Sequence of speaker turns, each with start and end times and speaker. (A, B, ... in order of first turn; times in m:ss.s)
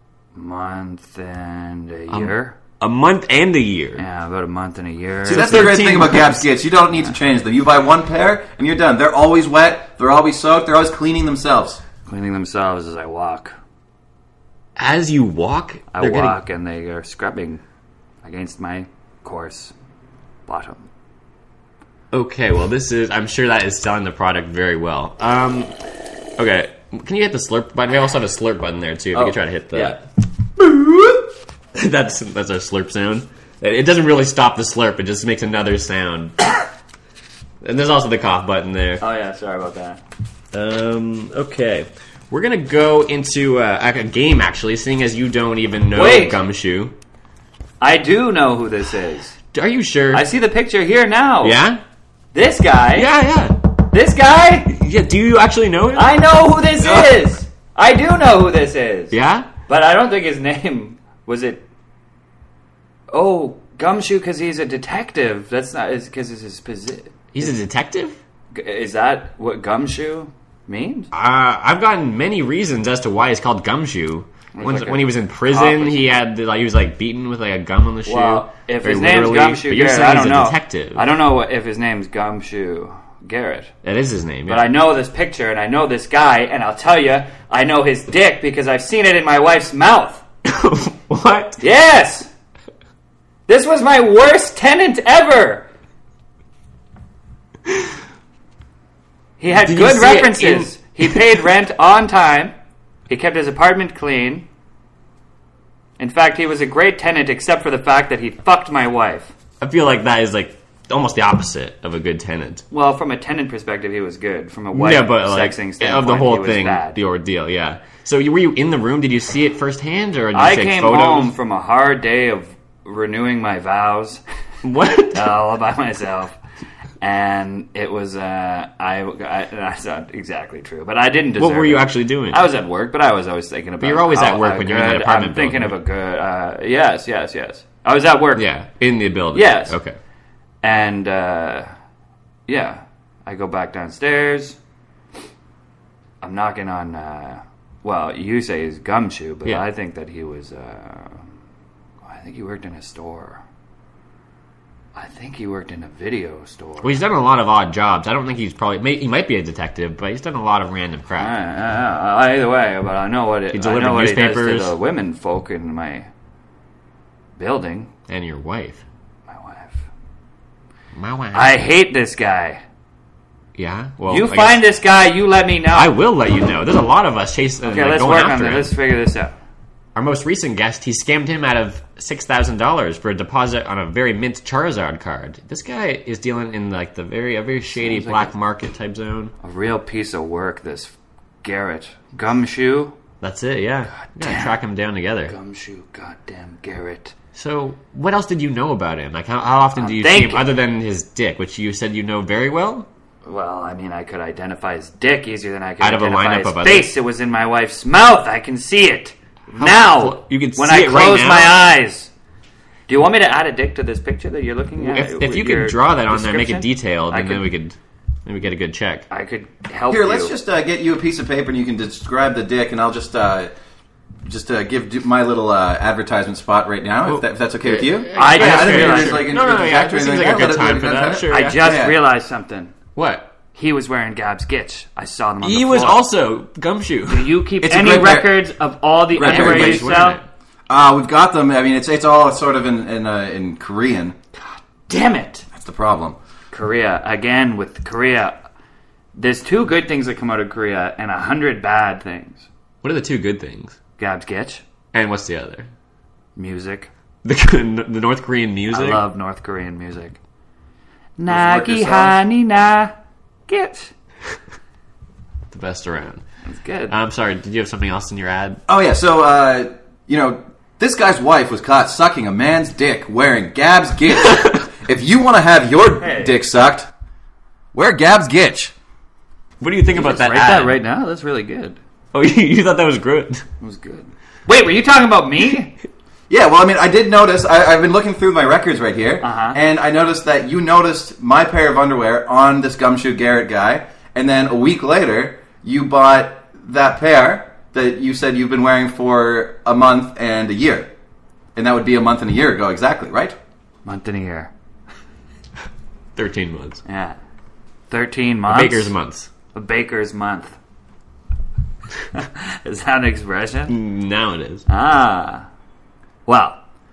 0:00.3-0:02.6 A
0:02.1-0:04.0 B
0:04.0-0:05.8 A
0:05.2-0:06.4 B
0:05.3-0:11.8 C
0:12.0-0:13.5 A
0:14.8-0:16.4 B
0:15.9-0:17.6 A
0:18.2-0:19.7 A
0:20.5-0:20.9 A
0:22.1-0:25.8 B
0:26.4-0:30.0 B
0:29.1-0:30.0 A
0:31.7-0:36.6 B
0:37.6-0:39.0 B
0:39.0-0:40.0 A
0:40.5-0:46.9 B
0:45.9-0:46.4 A
0:47.8-0:49.4 A
0:49.5-0:50.3 B
0:50.1-0:51.6 A
0:51.4-0:51.8 B
0:52.3-0:53.1 A
0:52.9-0:53.6 B
0:53.9-0:54.8 A
0:54.7-0:56.2 B
0:55.9-0:59.2 A
0:56.8-0:57.2 B
0:59.1-0:59.5 B
0:59.7-1:01.6 A
1:03.1-1:07.5 A
1:07.3-1:08.2 B
1:08.5-1:11.1 A
1:11.1-1:21.0 B
1:14.5-1:16.2 A
1:18.0-1:23.7 A
1:23.8-1:24.7 B
1:24.5-1:30.2 A
1:30.4-1:31.6 B
1:31.6-1:32.3 A
1:33.5-1:35.6 A
1:39.4-1:42.5 A
1:39.5-1:41.4 B
1:43.1-1:44.5 A
1:46.0-1:49.3 A
1:49.6-1:52.6 B
1:52.7-1:57.0 A
1:54.7-2:01.3 B
2:00.3-2:04.2 A
2:04.6-2:05.3 B
2:05.1-2:06.4 A
2:07.0-2:18.4 A
2:11.4-2:12.5 B
2:13.8-2:15.8 B
2:18.4-2:20.0 B
2:19.3-2:19.7 A
2:20.6-2:21.7 A
2:22.5-2:24.6 A
2:26.2-2:31.2 A
2:32.0-2:33.4 A
2:34.9-2:37.0 A
2:36.8-2:41.3 B
2:41.2-2:46.1 A
2:43.5-2:44.7 B
2:47.4-2:47.9 A
2:48.1-2:48.8 B
2:49.3-2:49.9 A
2:51.0-2:51.6 B
2:51.3-2:52.6 A
2:53.6-2:54.6 B
2:54.1-2:55.9 A
2:55.7-2:58.7 B
2:57.6-2:59.3 A
2:59.9-3:09.3 B
3:07.7-3:08.3 A
3:09.4-3:13.0 A
3:13.2-3:15.3 B
3:14.0-3:14.5 A
3:15.3-3:17.1 A
3:17.3-3:22.9 B
3:19.8-3:20.5 A
3:23.2-3:32.1 A
3:25.8-3:26.9 B
3:29.6-3:31.6 B
3:32.9-3:37.5 A
3:34.8-3:39.0 B
3:39.1-3:40.3 A
3:39.9-3:43.5 C
3:44.2-3:52.0 C
3:47.0-3:51.6 B
3:48.1-3:49.3 A
3:51.3-3:52.7 A
3:53.0-3:53.3 B
3:53.5-3:56.0 A
3:55.4-3:57.4 B
3:57.1-4:00.2 A
3:57.6-3:58.4 C
3:59.1-3:59.8 C
3:59.2-4:00.2 B
4:00.7-4:04.2 C
4:04.9-4:05.5 A
4:05.5-4:06.2 C
4:06.5-4:08.4 A
4:09.1-4:12.5 A
4:12.8-4:13.8 B
4:14.0-4:14.6 A
4:14.9-4:15.7 B
4:16.4-4:16.9 A
4:17.2-4:19.0 B
4:18.7-4:20.2 A
4:21.2-4:22.9 A
4:21.3-4:22.2 C
4:23.5-4:23.9 A
4:25.5-4:26.2 B
4:26.4-4:26.9 A
4:26.9-4:28.6 B
4:28.7-4:36.9 C
4:34.2-4:34.6 B
4:36.0-4:36.4 A
4:37.7-4:38.7 C
4:39.6-4:40.8 B
4:39.9-4:41.8 A
4:42.1-4:43.4 B
4:43.6-4:45.7 A
4:46.3-5:00.9 C
4:49.2-4:49.6 A
5:01.5-5:03.4 C
5:03.8-5:04.5 A
5:06.2-5:06.8 B
5:06.8-5:07.2 A
5:07.9-5:08.9 A
5:08.5-5:09.3 B
5:09.5-5:10.6 A
5:12.1-5:13.7 A
5:13.7-5:14.6 B
5:14.7-5:15.4 A
5:16.3-5:16.6 A